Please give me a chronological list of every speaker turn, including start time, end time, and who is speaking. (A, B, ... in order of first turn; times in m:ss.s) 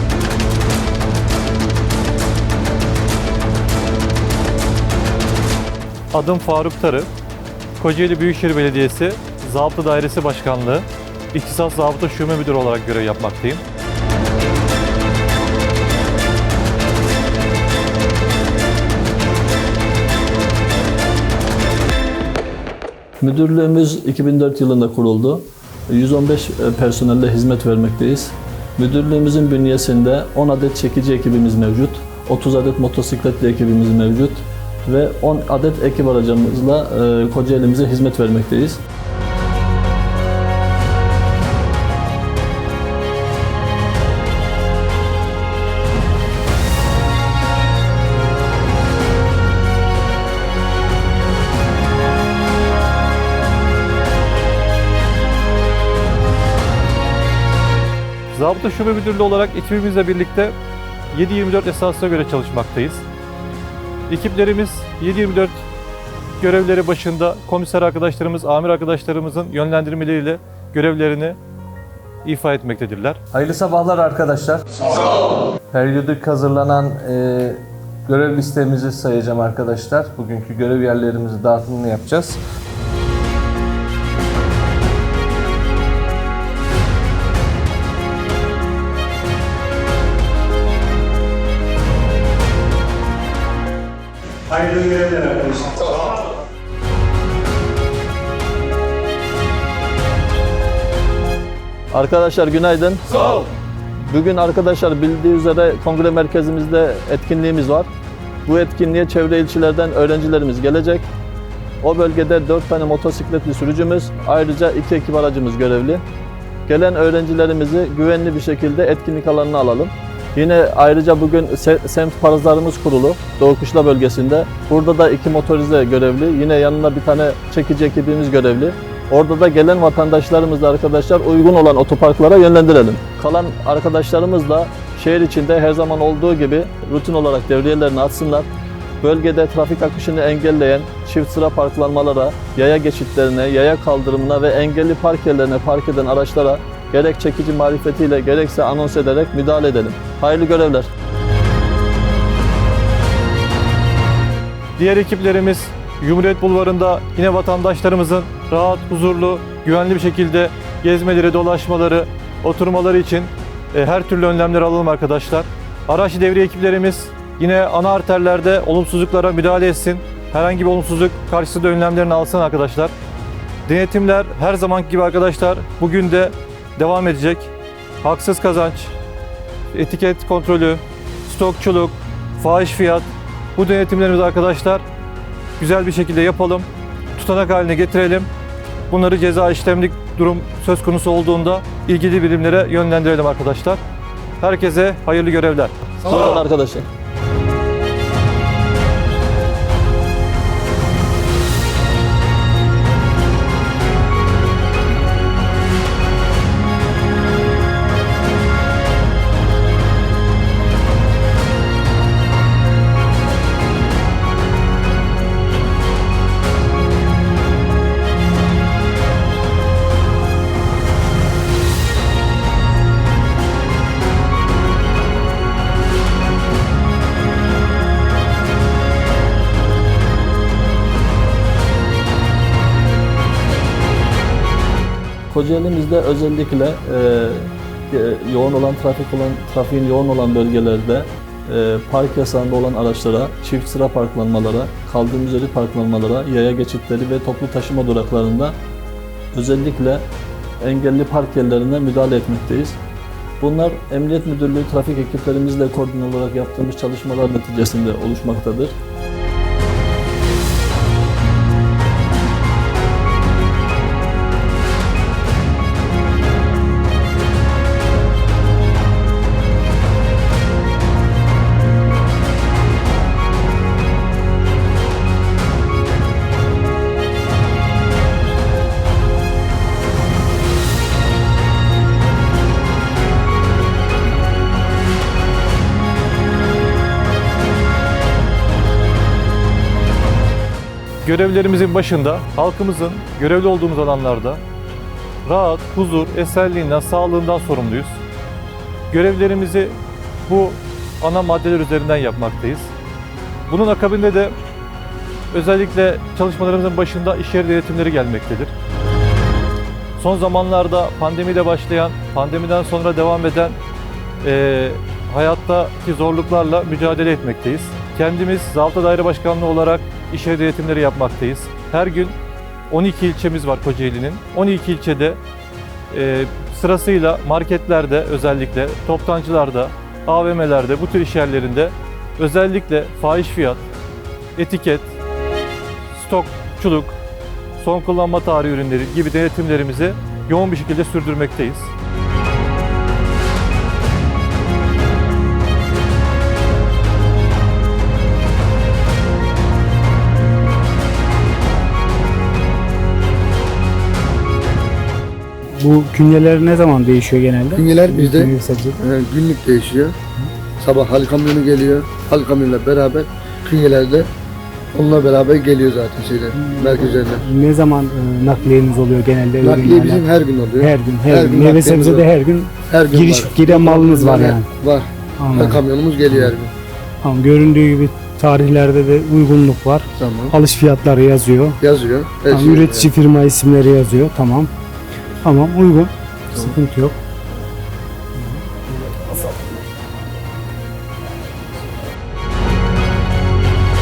0:06.1-0:07.1 A
0:07.8-0:13.6 A
0:23.2-0:38.8 B
0:58.3-1:00.6 A
1:01.1-1:03.0 A
1:04.1-1:05.6 A
1:06.4-1:11.4 A
1:12.2-1:13.2 A
1:13.3-1:22.4 C
1:35.0-1:35.3 A
1:41.9-1:47.9 B
1:48.5-1:51.1 B
1:51.8-1:56.0 B
1:56.7-2:18.5 B
2:19.0-2:30.9 B
2:34.8-2:52.9 A
2:53.7-2:59.0 A
2:59.7-3:04.9 A
3:05.6-3:08.3 A
3:08.9-3:13.8 A
3:14.4-3:15.8 A
3:16.0-3:16.9 B
3:55.3-4:08.6 B
4:09.3-4:10.0 B
4:10.6-4:12.8 B
4:13.4-4:18.8 B
4:51.0-4:54.4 A
4:55.2-4:58.0 A
4:58.9-5:02.7 A
5:03.5-5:04.4 A
5:05.3-5:08.5 A
5:10.0-5:13.6 A
5:14.2-5:22.2 A
5:22.7-5:25.2 A
5:25.9-5:33.6 A
5:34.4-5:35.0 A
5:35.9-5:37.0 A
5:37.6-5:41.7 A
5:55.6-5:58.8 D
5:57.6-6:00.0 E
6:00.6-6:04.1 E
6:04.7-6:07.2 E
6:06.4-6:14.5 D
6:09.4-6:12.1 E
6:12.7-6:16.5 E
6:15.2-6:16.4 D
6:17.0-6:21.6 D
6:20.0-6:20.3 E
6:21.6-6:22.9 E
6:22.3-6:24.5 D
6:25.2-6:27.0 D